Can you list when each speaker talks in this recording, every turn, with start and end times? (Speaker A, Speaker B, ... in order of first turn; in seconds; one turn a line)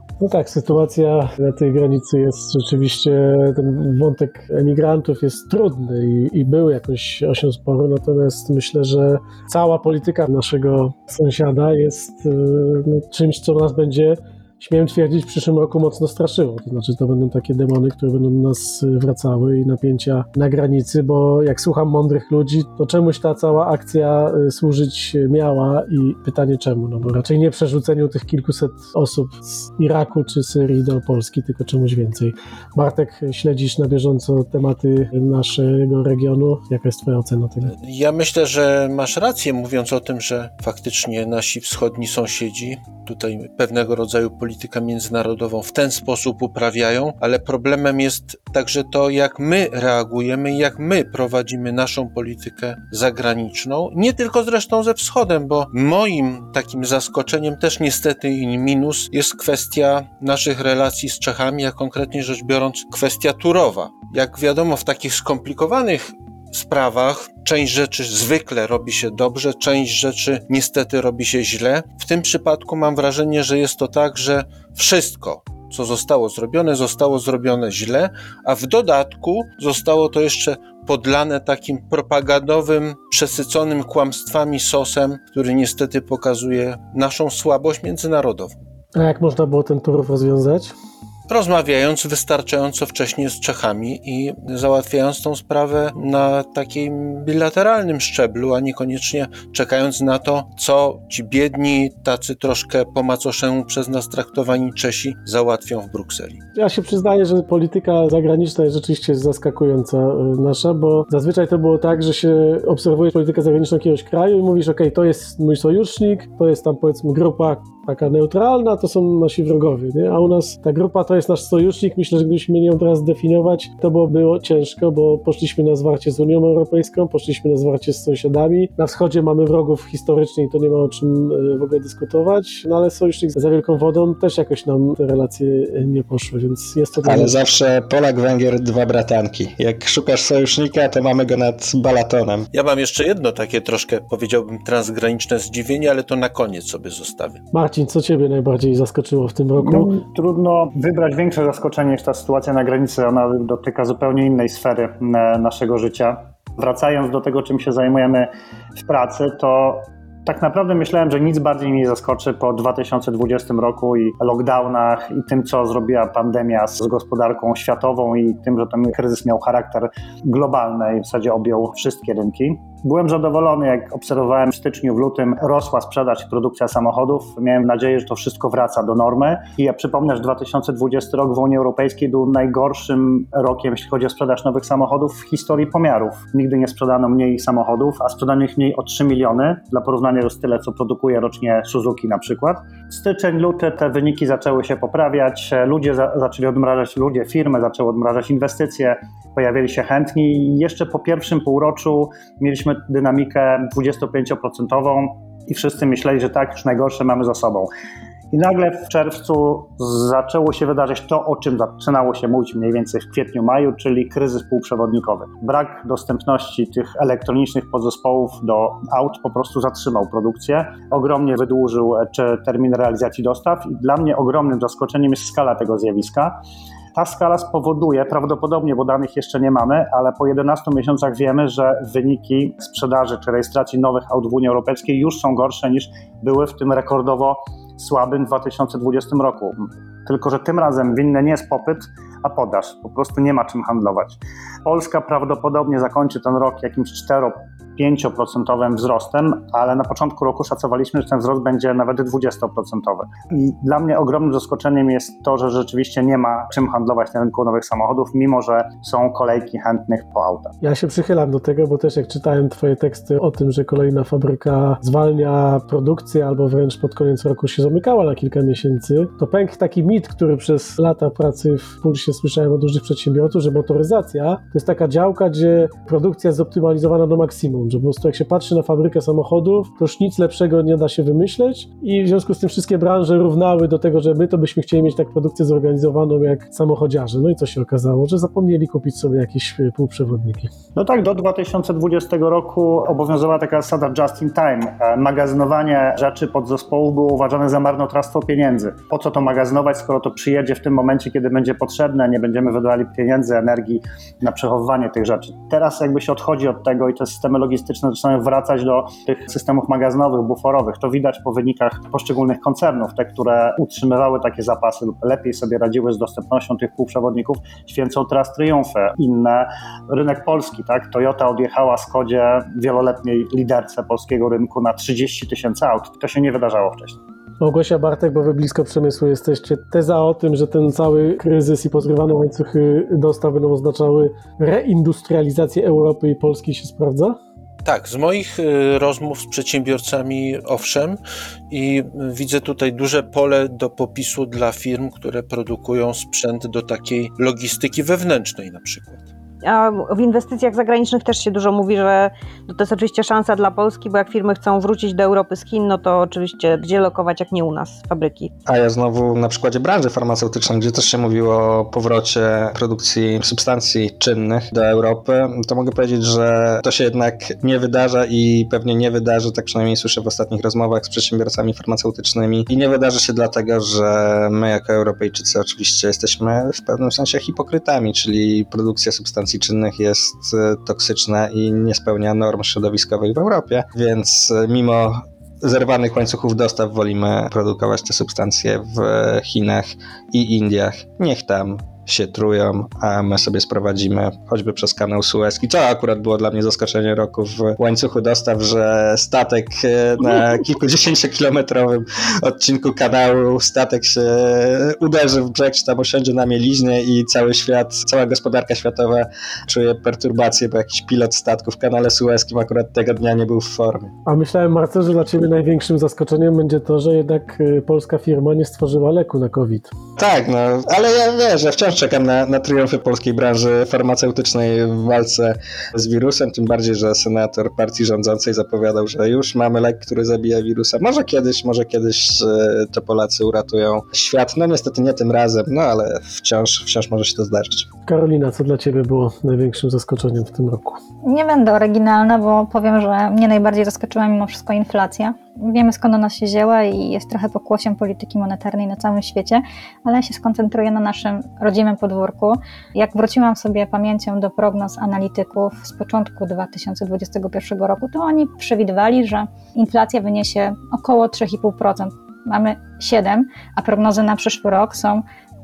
Speaker A: 0.2-37.7
Speaker B: 37.7-88.5
Speaker A: 88.9-90.7
Speaker B: 91.3-106.4
Speaker A: 106.5-137.3
Speaker C: 137.0-142.5
Speaker B: 142.5-147.4
Speaker A: 147.5-149.9
Speaker D: 149.6-207.7
Speaker D: 208.3-226.4
Speaker D: 226.9-260.5
Speaker A: 260.6-290.5
Speaker D: 290.8-327.0
Speaker A: 327.4-337.2
Speaker B: 337.6-341.0
Speaker B: 341.5-349.0
Speaker E: 349.4-358.3
Speaker C: 358.4-413.9
Speaker A: 414.1-419.7
Speaker C: 420.0-437.7
Speaker A: 437.9-440.8
Speaker F: 441.0-465.0